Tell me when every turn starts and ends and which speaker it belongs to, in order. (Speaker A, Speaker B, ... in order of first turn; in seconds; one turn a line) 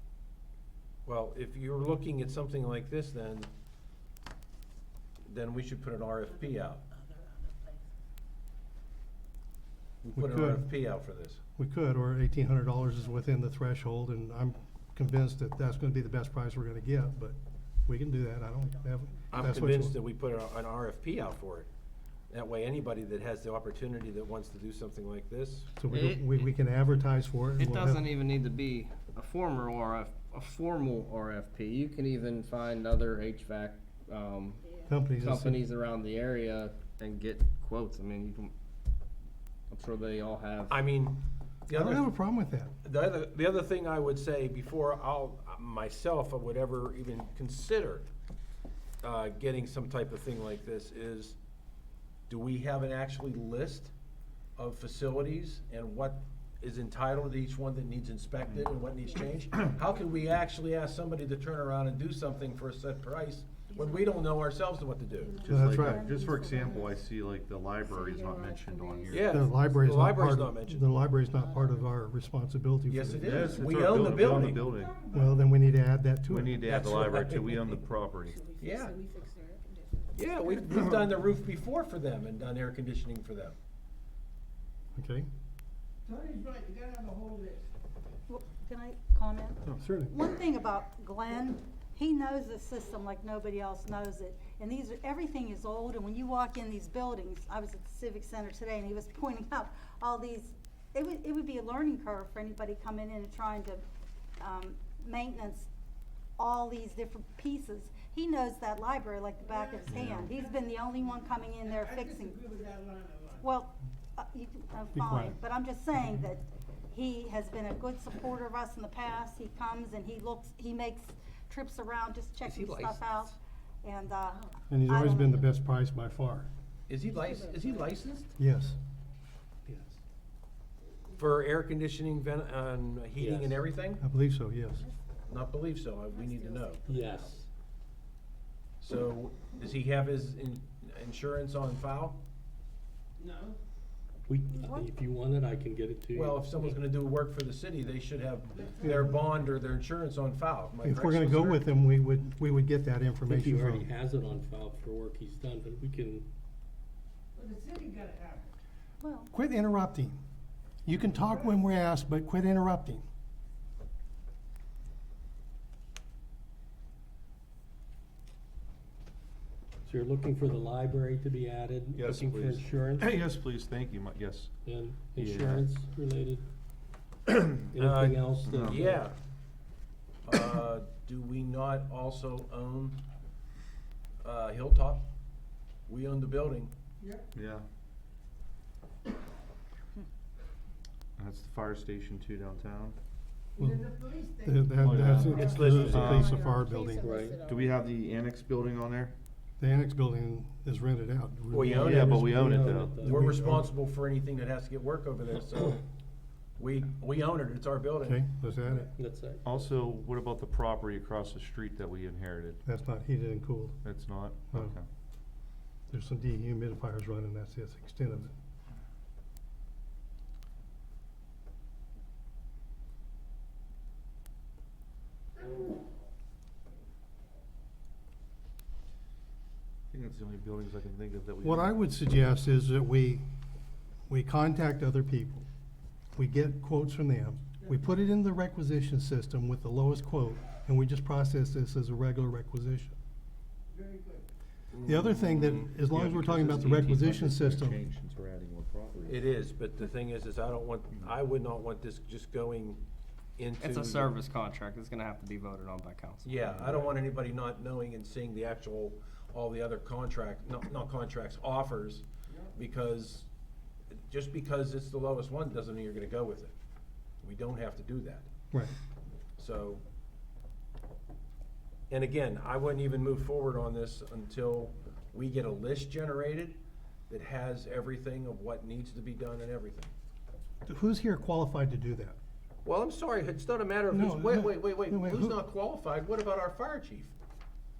Speaker A: 1.1-3.5
Speaker A: 5.3-6.8
Speaker B: 7.1-7.7
Speaker A: 10.0-11.4
Speaker C: 10.2-10.7
Speaker C: 11.6-20.0
Speaker A: 19.3-21.7
Speaker A: 22.3-25.7
Speaker C: 25.8-28.0
Speaker D: 25.9-26.5
Speaker D: 27.6-34.6
Speaker C: 34.9-35.6
Speaker D: 35.1-38.5
Speaker D: 39.7-40.8
Speaker A: 40.7-42.1
Speaker C: 41.7-42.7
Speaker A: 42.8-48.1
Speaker A: 49.0-51.4
Speaker A: 52.3-53.9
Speaker A: 54.6-65.5
Speaker B: 63.8-64.3
Speaker E: 65.4-69.3
Speaker C: 65.5-66.1
Speaker B: 65.5-67.0
Speaker F: 66.0-66.6
Speaker B: 67.8-69.3
Speaker A: 69.1-70.8
Speaker C: 69.3-73.6
Speaker B: 71.4-71.8
Speaker A: 72.9-74.7
Speaker E: 73.2-74.9
Speaker G: 74.8-75.3
Speaker C: 75.1-76.6
Speaker E: 76.3-78.4
Speaker A: 76.6-77.7
Speaker B: 78.2-80.9
Speaker A: 78.6-79.0
Speaker A: 80.1-83.5
Speaker C: 85.0-85.3
Speaker G: 86.0-87.7
Speaker F: 88.3-103.8
Speaker C: 89.8-90.1
Speaker F: 104.4-105.7
Speaker F: 106.4-112.4
Speaker G: 109.5-109.9
Speaker E: 109.9-110.3
Speaker G: 111.8-113.4
Speaker F: 113.4-125.5
Speaker C: 114.9-115.4
Speaker A: 122.4-123.3
Speaker C: 124.7-126.5
Speaker A: 126.9-128.3
Speaker B: 127.0-128.0
Speaker C: 128.4-128.8
Speaker A: 131.1-134.0
Speaker H: 133.2-133.7
Speaker C: 134.0-134.8
Speaker A: 135.3-136.8
Speaker B: 136.1-137.4
Speaker H: 136.9-137.4
Speaker A: 138.8-142.2
Speaker G: 143.2-143.6
Speaker H: 144.3-146.8
Speaker F: 144.5-144.9
Speaker A: 146.1-151.6
Speaker G: 148.6-149.0
Speaker C: 150.8-153.9
Speaker H: 153.2-156.2
Speaker G: 157.3-158.5
Speaker F: 159.0-159.3
Speaker C: 159.3-160.2
Speaker C: 160.8-163.0
Speaker H: 169.8-173.1
Speaker E: 171.9-174.5
Speaker H: 174.6-176.4
Speaker E: 175.2-175.7
Speaker A: 177.7-179.2
Speaker H: 177.7-179.1
Speaker E: 178.4-178.8
Speaker A: 180.2-183.0
Speaker A: 184.2-185.0
Speaker A: 185.9-186.7
Speaker E: 187.3-187.7
Speaker E: 191.2-192.9
Speaker G: 193.6-195.7
Speaker C: 193.6-193.8
Speaker C: 194.4-197.1
Speaker E: 194.8-196.4
Speaker B: 195.3-197.8
Speaker H: 195.3-195.7
Speaker H: 196.9-197.4
Speaker E: 197.4-199.1
Speaker C: 199.6-202.3
Speaker A: 201.5-202.4
Speaker E: 201.7-203.0
Speaker H: 202.1-203.6
Speaker A: 203.0-205.8
Speaker C: 203.1-203.6
Speaker A: 206.6-208.2
Speaker C: 208.0-208.9
Speaker H: 208.9-209.4
Speaker E: 209.4-212.6
Speaker C: 212.6-213.8
Speaker E: 213.8-214.8
Speaker C: 215.9-218.3
Speaker E: 229.9-231.7
Speaker C: 231.4-233.2
Speaker C: 234.1-235.4
Speaker C: 236.1-242.9
Speaker G: 243.7-244.2
Speaker A: 244.7-245.5
Speaker C: 244.8-247.8
Speaker E: 245.4-249.3
Speaker A: 249.1-252.8
Speaker A: 253.4-254.1
Speaker D: 253.6-256.7
Speaker A: 256.2-263.3
Speaker A: 264.0-266.5
Speaker A: 267.2-268.3
Speaker A: 269.4-269.8
Speaker A: 271.9-279.9
Speaker C: 280.6-282.2
Speaker A: 282.6-287.1
Speaker C: 283.9-285.4